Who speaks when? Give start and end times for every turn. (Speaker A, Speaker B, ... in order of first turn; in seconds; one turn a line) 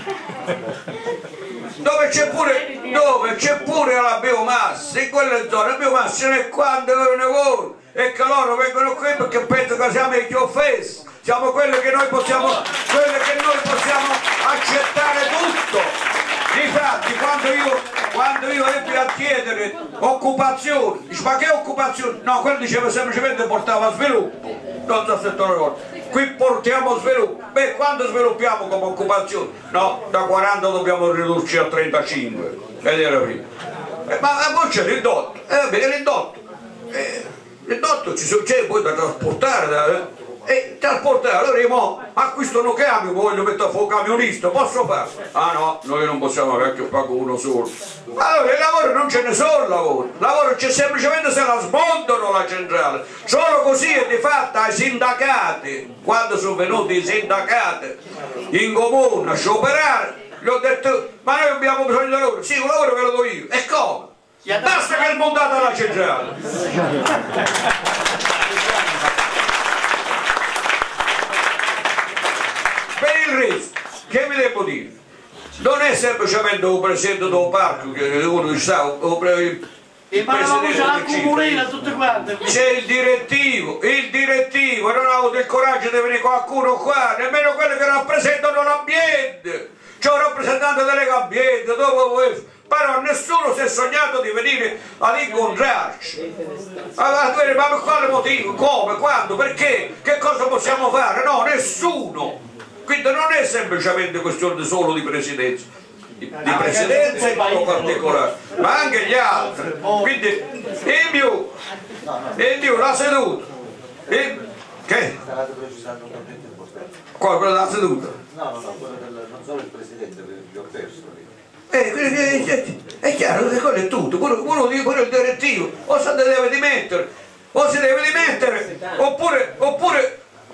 Speaker A: 1.8-15.9
Speaker A: 16.5-33.4
Speaker A: 34.1-58.0
Speaker A: 58.5-66.5
Speaker A: 73.0-74.9
Speaker A: 75.6-79.6
Speaker A: 80.1-81.7
Speaker B: 80.2-82.5
Speaker A: 82.4-96.2
Speaker A: 97.0-105.7
Speaker A: 106.2-111.5
Speaker A: 112.4-113.5
Speaker A: 114.1-115.2
Speaker C: 115.3-116.8
Speaker A: 117.2-118.2
Speaker C: 118.4-121.2
Speaker A: 121.7-130.1